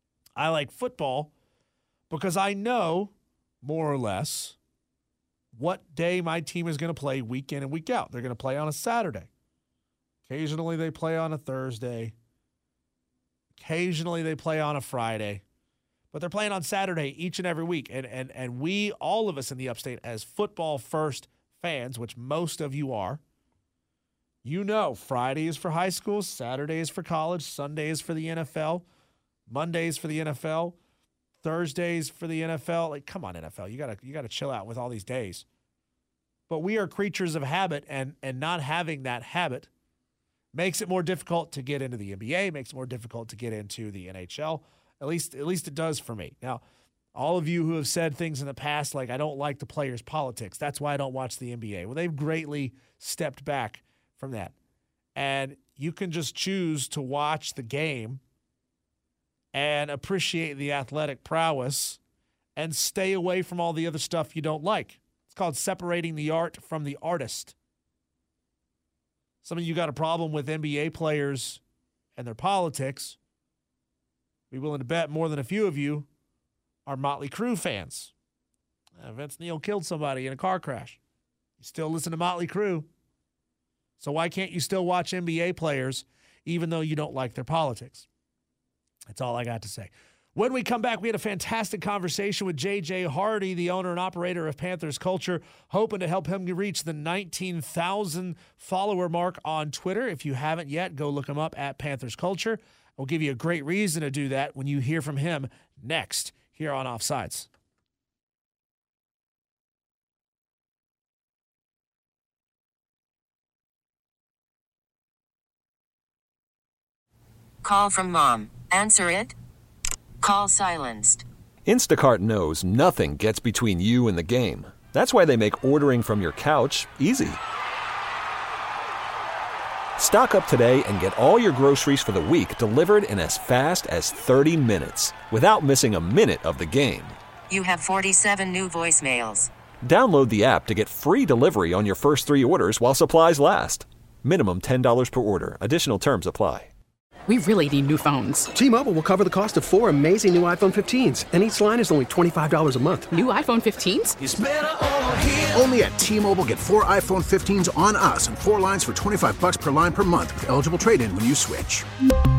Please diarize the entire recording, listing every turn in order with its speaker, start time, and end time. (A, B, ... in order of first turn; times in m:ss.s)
0:00.4-0:01.3 A
0:02.1-0:04.6 A
0:05.5-0:09.3 A
0:10.3-0:12.1 A
0:13.6-0:15.4 A
0:16.1-0:23.2 A
0:24.4-0:28.8 A
0:29.5-0:30.8 A
0:31.4-0:35.4 A
0:36.5-0:39.7 A
0:40.5-0:46.6 A
0:47.1-0:54.5 A
0:55.2-0:58.2 A
0:59.5-1:02.0 A
1:02.6-1:07.5 A
1:09.4-1:11.6 A
1:12.2-1:13.2 A
1:14.5-1:16.1 A
1:16.8-1:18.1 A
1:19.0-1:21.0 A
1:21.6-1:22.9 A
1:24.0-1:28.1 A
1:29.1-1:47.5 A
1:57.6-1:59.3 B
2:00.2-2:01.2 B
2:01.6-2:07.4 C
2:10.0-2:17.2 C
2:17.5-2:19.5 B
2:19.8-2:26.7 C
2:27.3-2:28.5 D
2:28.5-2:33.1 E
2:33.1-2:34.2 D
2:34.2-2:41.8 F